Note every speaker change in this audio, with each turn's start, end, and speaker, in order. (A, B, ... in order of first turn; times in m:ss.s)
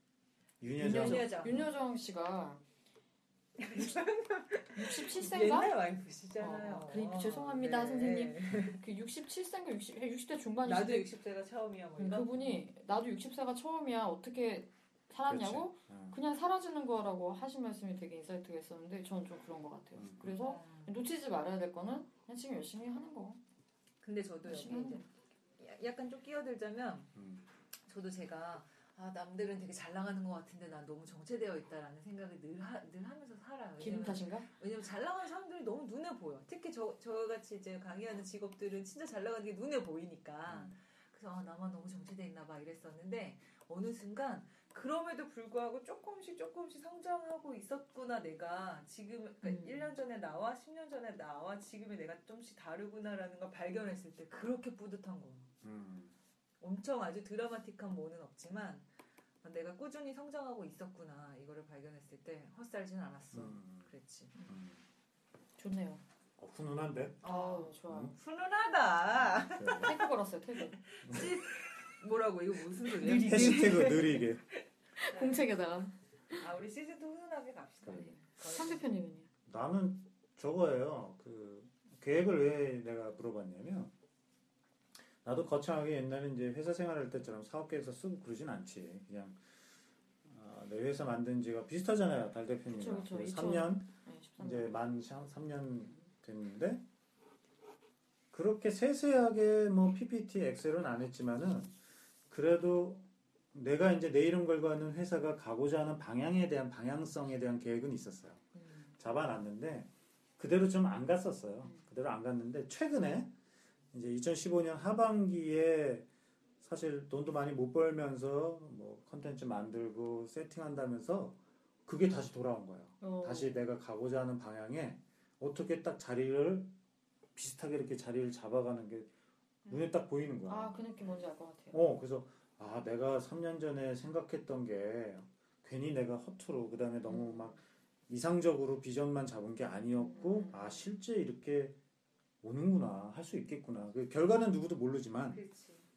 0:00.6-0:01.7 A
0:00.8-0:02.6 B
0:00.8-0:01.6 C
0:03.6-0:08.8 C
0:04.7-0:05.8 B
0:06.4-0:11.1 B
0:10.6-0:12.6 C
0:12.0-0:23.4 B
0:15.3-0:16.2 A
0:19.9-0:20.4 A
0:20.4-0:21.0 C
0:24.0-0:27.1 C
0:24.4-0:25.0 B
0:27.1-0:27.5 A
0:27.9-0:55.5 C
0:33.8-0:34.5 B
0:40.5-0:40.7 A
0:49.4-0:49.9 B
0:55.6-0:56.1 A
0:56.6-0:58.8 C
0:59.4-1:04.4 C
1:03.3-1:03.9 A
1:04.4-1:04.8 A
1:05.6-1:06.0 B
1:06.4-1:07.2 A
1:07.2-1:14.4 C
1:07.2-1:08.1 B
1:07.9-1:08.1 A
1:09.0-1:10.0 A
1:09.7-1:10.8 B
1:11.0-1:11.3 A
1:12.8-1:14.2 B
1:13.1-1:14.4 A
1:15.0-1:16.4 B
1:15.1-1:15.5 C
1:16.4-1:18.8 C
1:17.8-1:18.1 A
1:17.9-1:19.3 B
1:19.5-1:23.9 A
1:25.2-1:29.4 A
1:30.2-1:36.8 A
1:32.7-1:34.8 B
1:38.3-1:41.7 A
1:42.3-1:48.4 A
1:48.6-1:48.9 B
1:49.0-1:53.3 A
1:51.6-1:51.9 B
1:53.9-1:56.1 A
1:56.6-2:06.7 A
2:03.0-2:03.6 B
2:07.3-2:09.1 A
2:09.7-2:10.8 A
2:10.4-2:11.8 B
2:11.7-2:21.8 A
2:17.1-2:17.6 B
2:20.0-2:20.8 B
2:22.4-2:25.4 A
2:25.2-2:25.8 C